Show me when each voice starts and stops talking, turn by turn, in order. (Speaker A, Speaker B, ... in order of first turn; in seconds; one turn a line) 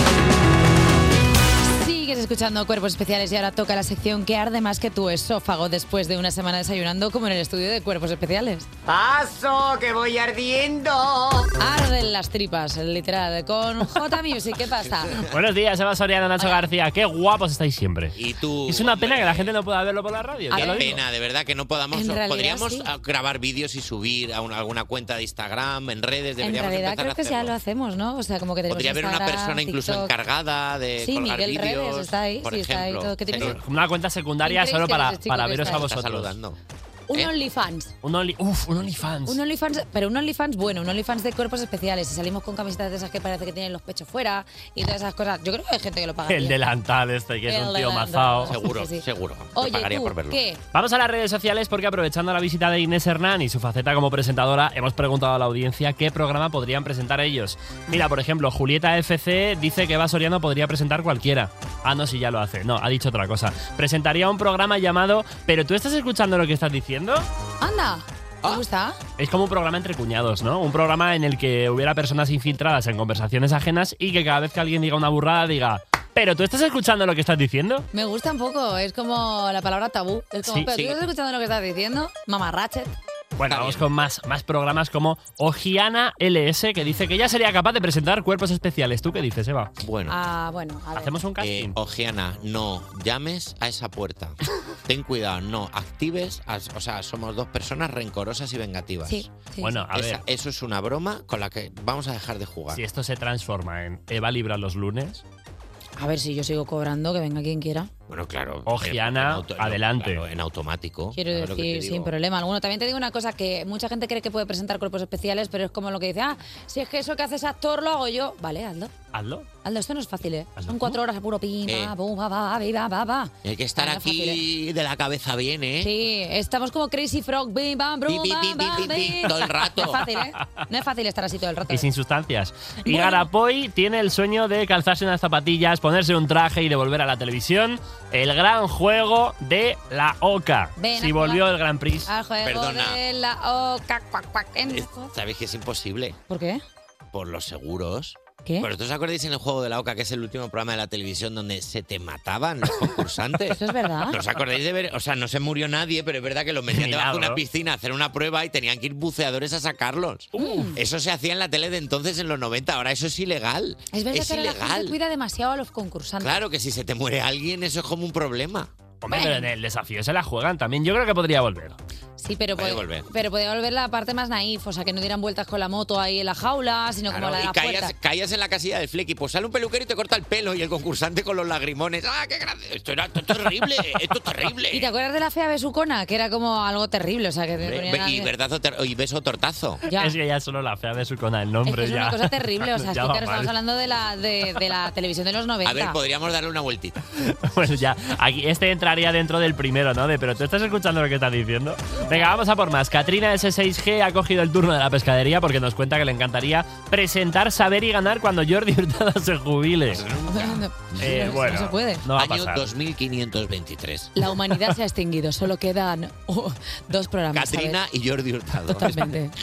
Speaker A: 1.8-8.7
Speaker B: 8.9-11.3
Speaker A: 11.6-15.2
Speaker B: 14.8-15.3
Speaker C: 15.3-18.1
Speaker A: 16.4-16.6
Speaker B: 18.2-19.5
Speaker C: 18.7-21.0
Speaker A: 20.5-20.9
Speaker B: 20.5-27.5
Speaker A: 21.9-22.9
Speaker A: 26.4-30.1
Speaker B: 28.7-33.6
Speaker A: 31.0-33.6
Speaker C: 33.4-36.4
Speaker A: 34.5-35.8
Speaker B: 35.6-36.6
Speaker A: 37.1-38.0
Speaker C: 38.0-39.4
Speaker A: 39.3-46.6
Speaker C: 46.3-48.5
Speaker A: 47.5-49.0
Speaker B: 48.5-50.4
Speaker A: 49.5-50.6
Speaker C: 50.7-67.3
Speaker A: 67.6-69.0
Speaker C: 69.2-77.9
Speaker A: 77.9-82.9
Speaker B: 80.7-81.0
Speaker C: 83.4-89.7
Speaker B: 83.5-83.9
Speaker B: 89.8-90.2
Speaker A: 90.1-91.2
Speaker C: 91.0-91.8
Speaker B: 91.4-99.2
Speaker A: 99.1-99.8
Speaker C: 99.6-100.2
Speaker B: 99.9-102.8
Speaker C: 102.7-105.2
Speaker A: 106.0-107.9
Speaker B: 108.1-112.1
Speaker C: 108.7-110.2
Speaker A: 111.2-118.9
Speaker C: 119.1-119.5
Speaker A: 119.6-124.4
Speaker C: 120.6-121.0
Speaker B: 121.7-121.9
Speaker B: 123.4-125.9
Speaker A: 125.8-131.9
Speaker B: 128.1-130.0
Speaker C: 131.7-142.1
Speaker A: 132.9-133.3
Speaker A: 140.8-141.4
Speaker A: 142.1-145.1
Speaker B: 142.4-143.0
Speaker B: 144.7-146.2
Speaker A: 146.3-146.6
Speaker B: 147.1-164.9
Speaker A: 153.5-154.2
Speaker C: 156.7-157.4
Speaker C: 160.3-160.7
Speaker A: 160.4-160.8
Speaker A: 163.9-166.4
Speaker B: 166.2-168.7
Speaker C: 169.0-171.8
Speaker A: 169.1-169.5
Speaker A: 172.2-177.9
Speaker B: 172.6-173.1
Speaker B: 177.1-184.9
Speaker A: 184.7-188.3
Speaker B: 187.6-189.8
Speaker A: 189.9-190.1
Speaker C: 190.0-193.5
Speaker A: 191.7-196.0
Speaker B: 195.7-197.0
Speaker C: 197.2-210.0
Speaker B: 209.9-211.4
Speaker A: 210.3-212.1
Speaker C: 211.0-212.6
Speaker B: 212.2-214.1
Speaker A: 214.2-217.8
Speaker B: 217.3-219.1
Speaker A: 218.8-219.3